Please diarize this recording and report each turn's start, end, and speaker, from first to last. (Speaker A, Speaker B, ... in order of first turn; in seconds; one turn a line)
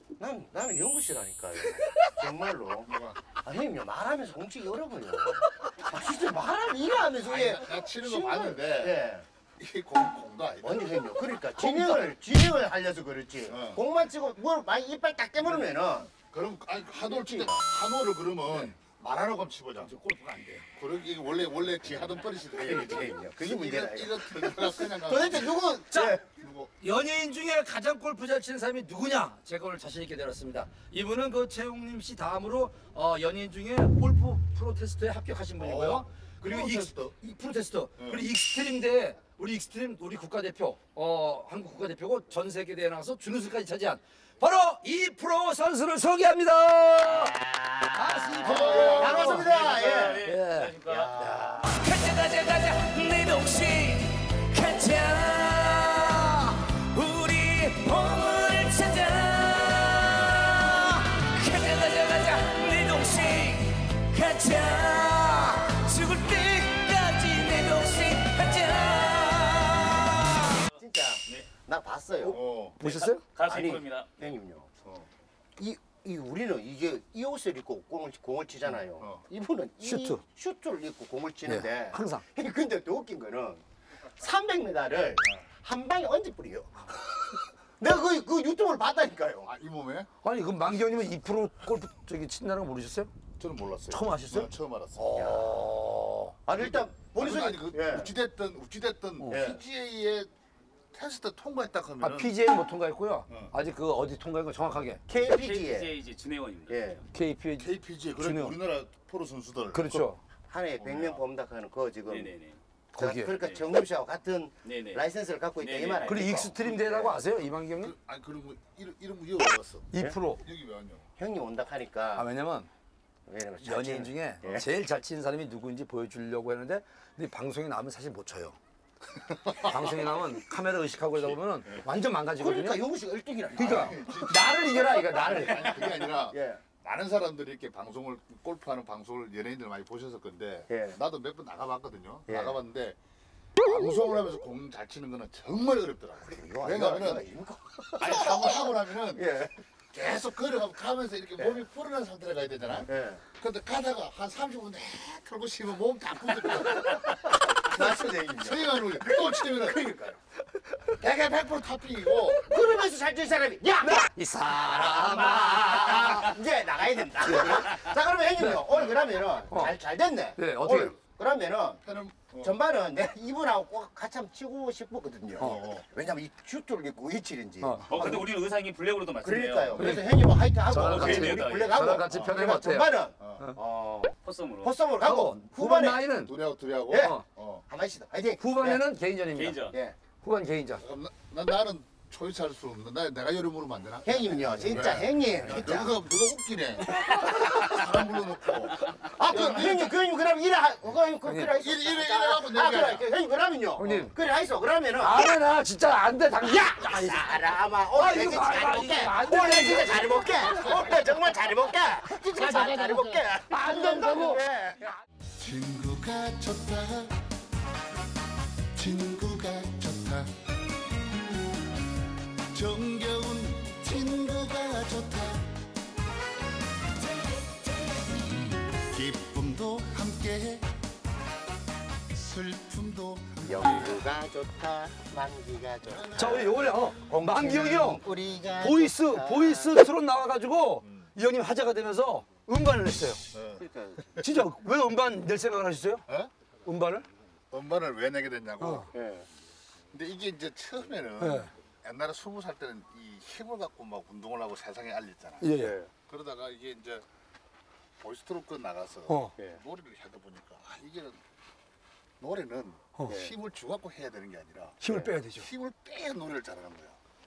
Speaker A: 0.2-9.2
Speaker B: 1.6-2.1
Speaker C: 2.9-3.2
Speaker C: 7.2-9.0
Speaker C: 9.6-12.1
Speaker A: 10.6-16.1
Speaker C: 13.5-13.8
Speaker C: 16.2-19.9
Speaker A: 17.0-17.6
Speaker B: 19.8-20.7
Speaker C: 20.8-25.7
Speaker A: 22.5-26.2
Speaker B: 25.9-26.2
Speaker C: 26.4-26.7
Speaker B: 26.8-47.4
Speaker C: 35.6-37.1
Speaker C: 38.0-38.2
Speaker A: 47.1-50.3
Speaker B: 47.9-49.5
Speaker C: 48.4-49.2
Speaker D: 48.9-51.1
Speaker B: 50.2-70.5
Speaker A: 50.8-51.8
Speaker D: 51.9-54.0
Speaker D: 56.9-63.6
Speaker D: 66.0-69.2
Speaker A: 70.5-72.4
Speaker C: 72.3-72.8
Speaker B: 72.3-73.2
Speaker D: 72.8-74.3
Speaker A: 73.4-74.7
Speaker A: 75.6-89.5
Speaker C: 78.9-79.2
Speaker B: 79.8-80.2
Speaker B: 81.5-82.2
Speaker C: 89.5-90.1
Speaker B: 90.2-93.1
Speaker C: 93.4-95.1
Speaker B: 93.9-96.3
Speaker A: 95.1-95.7
Speaker A: 96.5-98.1
Speaker C: 96.6-100.3
Speaker A: 99.3-99.6
Speaker C: 100.9-102.4
Speaker B: 102.0-105.0
Speaker C: 103.3-103.5
Speaker A: 105.1-105.9
Speaker D: 105.1-106.7
Speaker A: 106.7-107.0
Speaker B: 107.1-108.6
Speaker C: 107.6-110.0
Speaker B: 109.7-110.2
Speaker A: 110.5-112.3
Speaker C: 110.8-111.2
Speaker D: 112.0-112.6
Speaker B: 112.9-113.3
Speaker A: 113.0-117.2
Speaker D: 114.6-115.0
Speaker D: 115.6-116.3
Speaker B: 116.0-117.9
Speaker C: 117.8-121.1
Speaker B: 119.9-120.4
Speaker A: 121.2-122.3
Speaker B: 122.1-122.7
Speaker A: 123.3-124.7
Speaker B: 123.6-128.6
Speaker C: 129.3-129.7
Speaker B: 129.5-132.8
Speaker C: 131.2-131.8
Speaker A: 132.4-134.2
Speaker B: 133.6-135.7
Speaker C: 133.6-143.0
Speaker A: 135.1-136.6
Speaker A: 140.7-141.0
Speaker A: 142.3-142.6
Speaker C: 143.6-147.3
Speaker A: 146.2-149.6
Speaker C: 148.0-149.2
Speaker C: 149.9-159.8
Speaker A: 151.4-151.6
Speaker A: 152.8-153.2
Speaker A: 156.8-160.2
Speaker C: 160.9-162.5
Speaker A: 162.4-171.8
Speaker B: 163.8-166.3
Speaker B: 167.2-167.8
Speaker B: 168.4-168.8
Speaker B: 169.5-169.7
Speaker B: 170.4-170.9
Speaker C: 171.8-172.5
Speaker A: 172.4-177.9
Speaker C: 175.4-175.8
Speaker B: 177.6-178.2
Speaker D: 177.9-179.9
Speaker A: 179.2-186.0
Speaker B: 179.8-180.1
Speaker B: 180.6-183.6
Speaker D: 180.8-181.9
Speaker D: 184.2-184.7
Speaker B: 185.0-186.3
Speaker C: 186.2-187.6
Speaker A: 186.9-188.8
Speaker B: 186.9-187.2
Speaker B: 188.4-189.6
Speaker D: 189.3-189.7
Speaker A: 189.7-190.0
Speaker B: 190.2-190.8
Speaker C: 190.8-199.9
Speaker A: 194.0-196.0
Speaker A: 196.8-197.9
Speaker A: 198.8-205.3
Speaker B: 201.2-201.5
Speaker C: 201.6-203.0
Speaker B: 203.8-204.1
Speaker B: 205.0-210.8
Speaker A: 206.4-214.9
Speaker C: 210.5-211.0
Speaker B: 212.2-214.4
Speaker C: 215.4-217.2
Speaker C: 218.8-220.3
Speaker C: 222.5-225.5
Speaker C: 228.7-230.7
Speaker C: 232.1-234.0
Speaker A: 233.4-236.7
Speaker C: 235.9-236.5
Speaker B: 236.1-238.0
Speaker A: 237.2-239.8
Speaker B: 238.6-243.2
Speaker C: 240.8-241.1
Speaker C: 243.3-243.6
Speaker A: 243.6-244.2
Speaker B: 244.2-246.0
Speaker B: 246.6-247.1
Speaker C: 247.5-248.9
Speaker B: 248.6-248.9
Speaker A: 248.9-249.3
Speaker C: 249.9-255.5
Speaker B: 251.2-251.5
Speaker B: 255.4-255.7
Speaker A: 255.5-255.9
Speaker C: 256.1-257.1
Speaker C: 258.0-261.2
Speaker B: 259.1-259.3
Speaker C: 262.2-264.8
Speaker B: 264.8-265.5
Speaker A: 264.9-265.1
Speaker C: 265.3-267.0